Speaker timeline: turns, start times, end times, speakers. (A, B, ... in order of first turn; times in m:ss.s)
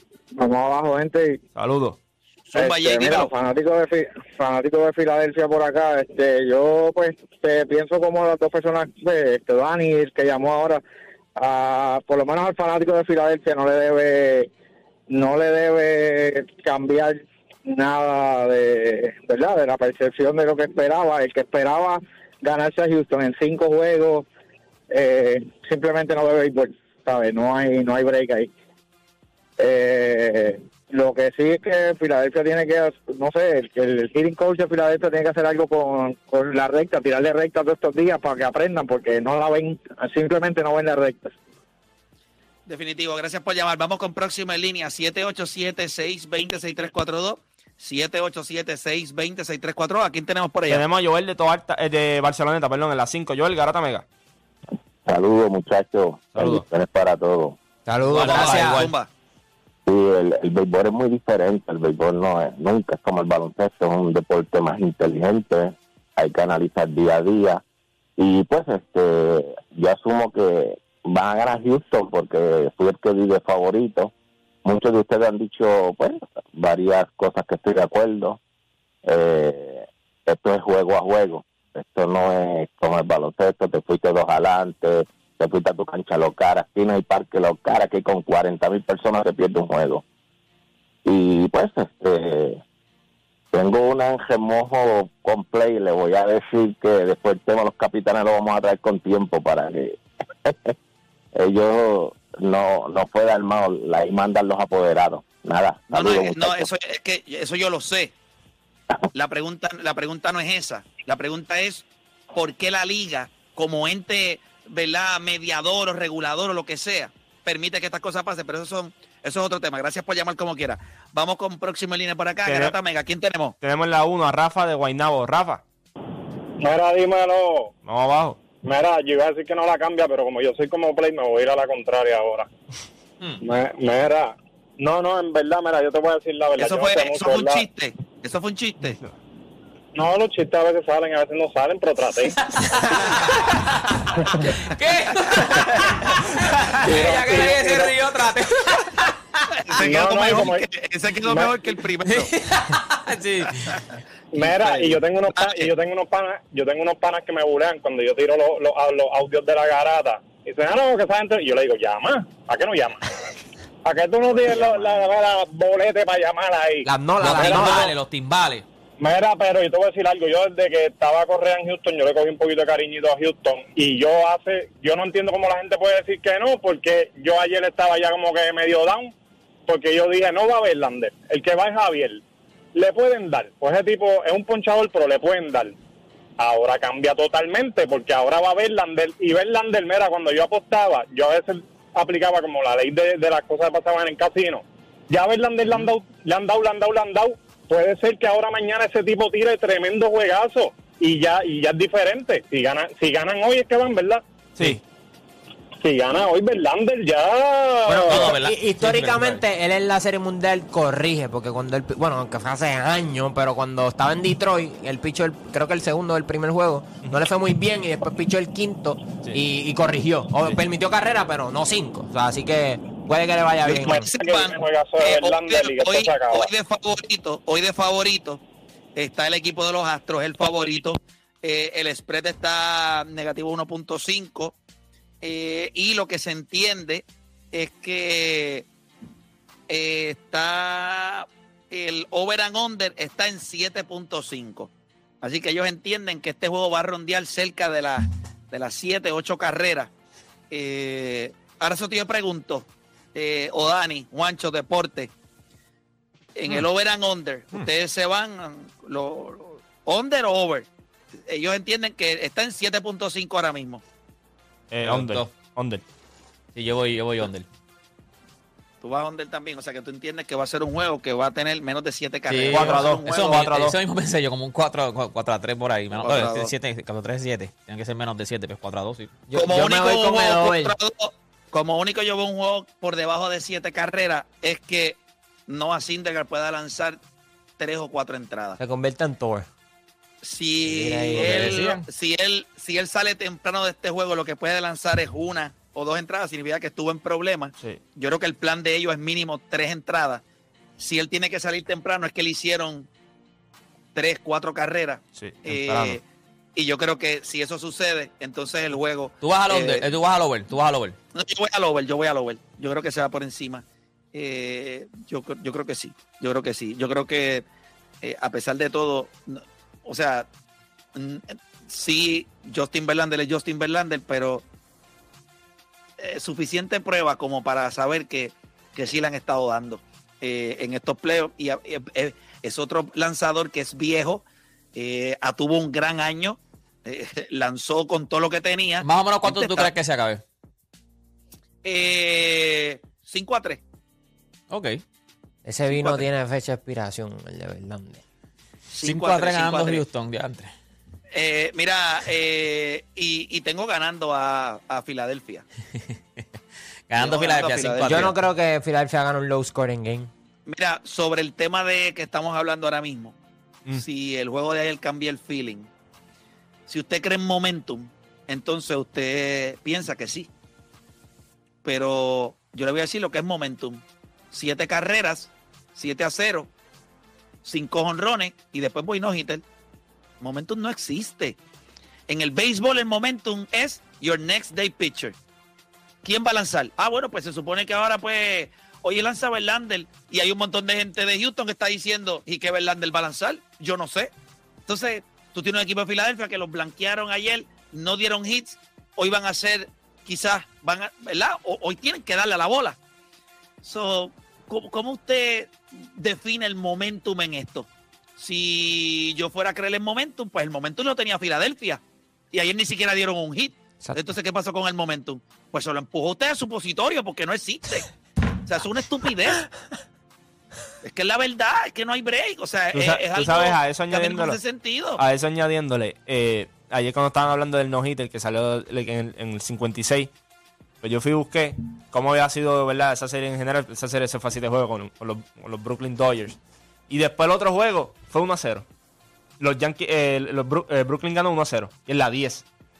0:00.4-0:01.4 A
0:01.6-0:02.0 B
0:02.5-0:03.3 C
0:02.6-0:10.8 A
0:11.4-0:14.5 A
0:15.1-0:24.3 A
0:24.9-0:28.5 A
0:29.6-0:41.3 A
0:42.7-0:50.8 C
0:50.7-0:54.0 B
0:55.1-0:57.6 D
0:56.3-0:56.6 B
0:57.9-0:58.9 E
0:58.1-0:58.9 F
0:58.2-0:59.1 C
0:59.9-1:07.6 D
1:08.2-1:14.1 D
1:14.6-1:18.4 D
1:19.1-1:30.0 D
1:31.1-1:32.6 D
1:33.5-1:40.7 D
1:41.4-1:46.7 D
1:45.9-1:48.1 C
1:49.1-2:03.6 C
2:02.4-2:02.8 B
2:03.6-2:05.6 B
2:06.6-2:07.7 G
2:07.8-2:08.4 B
2:08.6-2:12.5 G
2:13.4-2:17.7 G
2:16.6-2:19.0 C
2:20.0-2:22.4 G
2:22.4-2:29.2 F
2:25.3-2:25.9 C
2:26.8-2:28.0 G
2:29.6-2:32.3 C
2:29.8-2:30.6 G
2:31.2-2:31.5 G
2:32.0-2:33.7 F
2:34.3-2:43.1 G
2:34.4-2:35.7 C
2:43.8-2:47.9 G
2:44.4-2:45.1 C
2:46.9-2:47.9 E
2:47.2-2:48.6 F
2:49.0-2:59.1 G
2:59.7-3:02.2 G
3:02.8-3:05.8 G
3:06.4-3:24.2 G
3:25.8-3:28.4 G
3:27.9-3:44.1 E
3:28.1-3:29.4 F
3:43.6-3:48.4 C
3:43.8-3:46.5 G
3:49.0-3:54.6 C
3:55.2-3:58.7 C
3:59.7-4:04.7 C
4:05.2-4:09.9 C
4:10.5-4:15.1 C
4:16.4-4:20.7 C
4:21.3-4:23.8 C
4:24.7-4:25.8 B
4:24.8-4:25.3 F
4:26.6-4:27.5 F
4:28.8-4:33.6 C
4:32.3-4:39.2 F
4:32.5-4:33.8 B
4:36.0-4:36.5 C
4:39.3-4:40.8 E
4:39.4-4:47.0 C
4:47.6-4:48.6 C
4:48.6-4:49.5 E
4:50.2-5:00.2 C
4:50.6-4:51.5 E
4:51.2-4:51.8 F
5:00.8-5:02.9 C
5:03.9-5:06.0 C
5:05.2-5:06.0 B
5:06.6-5:09.9 C
5:09.2-5:11.0 F
5:11.2-5:17.4 C
5:18.0-5:20.3 C
5:21.0-5:24.4 C
5:26.0-5:39.7 C
5:38.8-5:40.2 F
5:41.6-5:43.6 C
5:44.5-5:44.8 F
5:45.4-5:48.0 E
5:45.7-5:46.1 C
5:48.7-5:49.9 C
5:48.8-5:50.5 F
5:51.1-5:55.5 C
5:55.8-5:56.2 F
5:56.9-5:58.1 F
5:57.0-5:58.1 C
5:57.8-6:00.1 E
6:00.5-6:03.2 C
6:03.7-6:05.7 C
6:06.7-6:10.3 C
6:11.6-6:16.5 C
6:17.4-6:19.4 C
6:20.2-6:21.4 C
6:22.1-6:25.2 C
6:26.0-6:34.1 C
6:34.7-6:42.8 C
6:43.6-6:51.8 C
6:52.3-6:57.9 C
6:58.5-6:59.4 C
7:00.8-7:05.0 C
7:02.7-7:04.4 B
7:05.0-7:10.1 B
7:10.8-7:16.4 B
7:16.9-7:18.7 B
7:19.4-7:22.4 B